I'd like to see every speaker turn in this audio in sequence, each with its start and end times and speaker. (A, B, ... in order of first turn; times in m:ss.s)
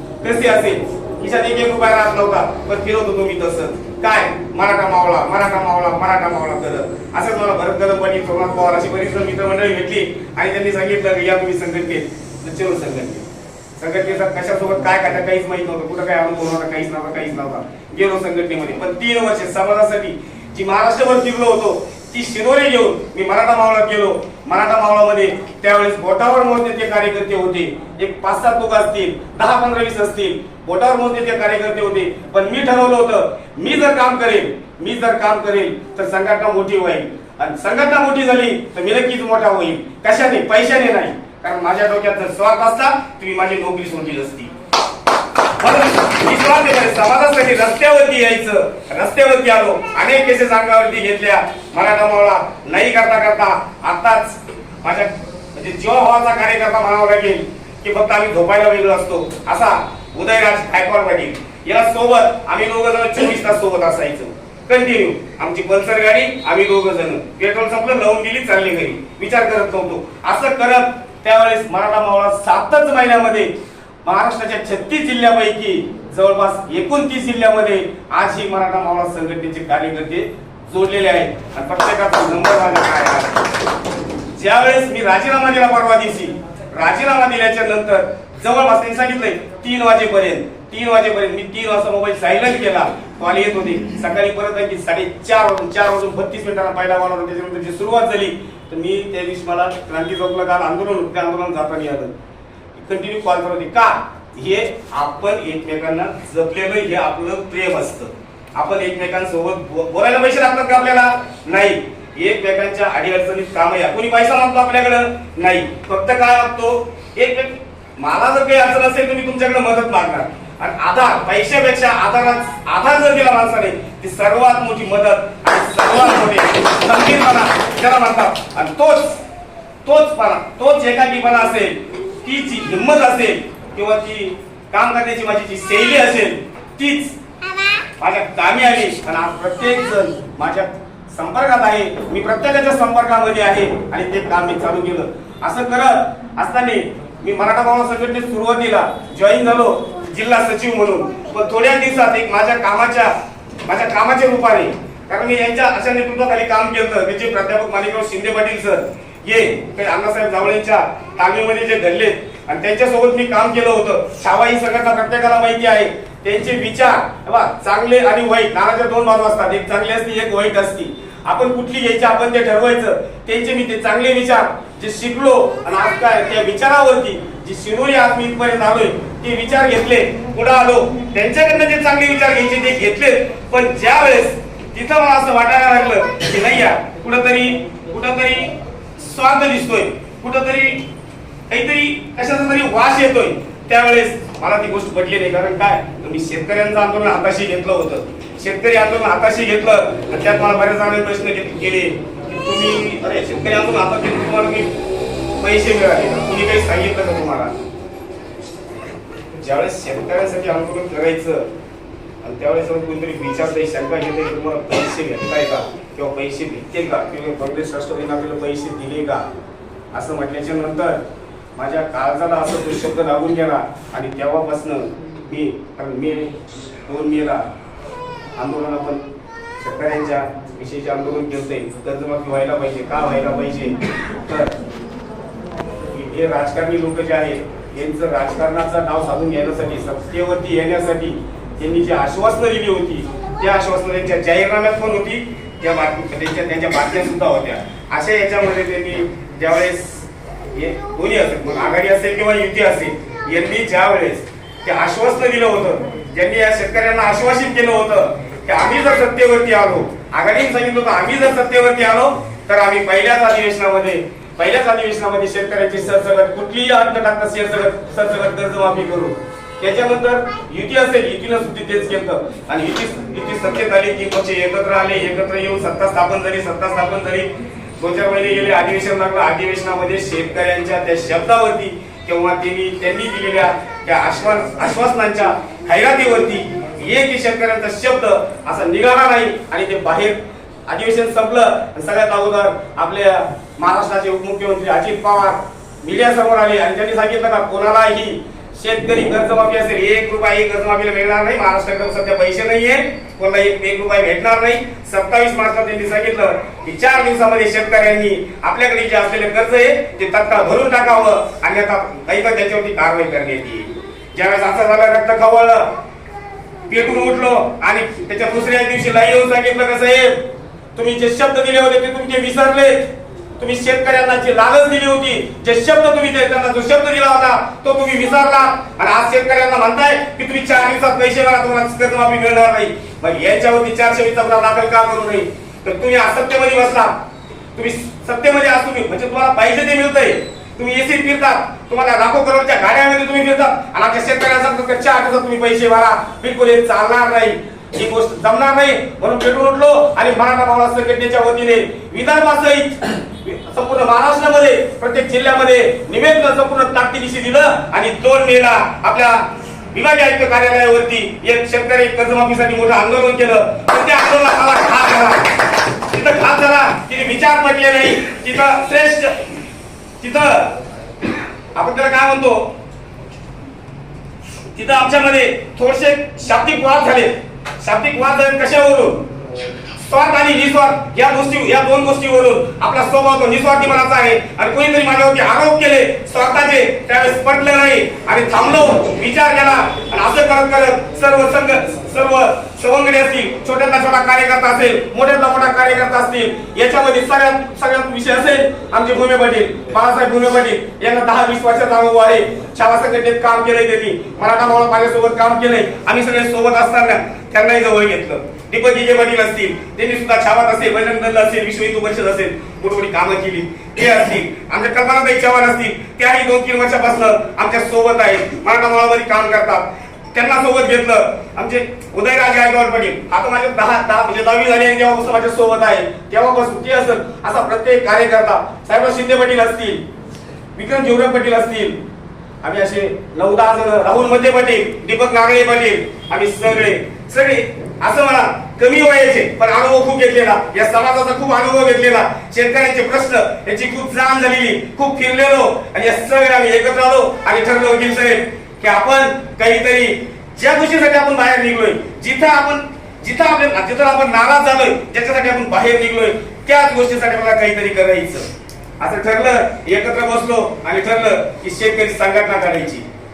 0:00.2-0:44.5 A
0:45.6-1:13.5 A
1:14.0-1:23.4 A
1:24.4-1:42.1 A
1:42.7-2:09.2 A
2:09.8-2:17.2 A
2:18.0-2:33.1 A
2:33.7-3:10.8 A
3:11.5-3:24.7 A
3:25.4-3:27.5 A
3:29.4-3:31.5 A
3:32.2-3:39.2 A
3:39.9-3:41.0 A
3:41.6-3:46.4 A
3:46.9-3:47.4 A
3:48.4-3:49.0 A
3:49.6-3:54.5 A
3:55.9-5:15.7 A
5:16.7-5:20.2 A
5:20.8-5:36.9 A
5:37.6-6:05.3 A
6:05.9-6:09.2 A
6:10.0-6:10.6 A
6:11.6-6:12.5 A
6:14.5-6:19.0 A
6:19.8-7:09.8 A
7:10.6-7:11.8 A
7:12.4-7:38.3 A
7:38.8-7:42.9 A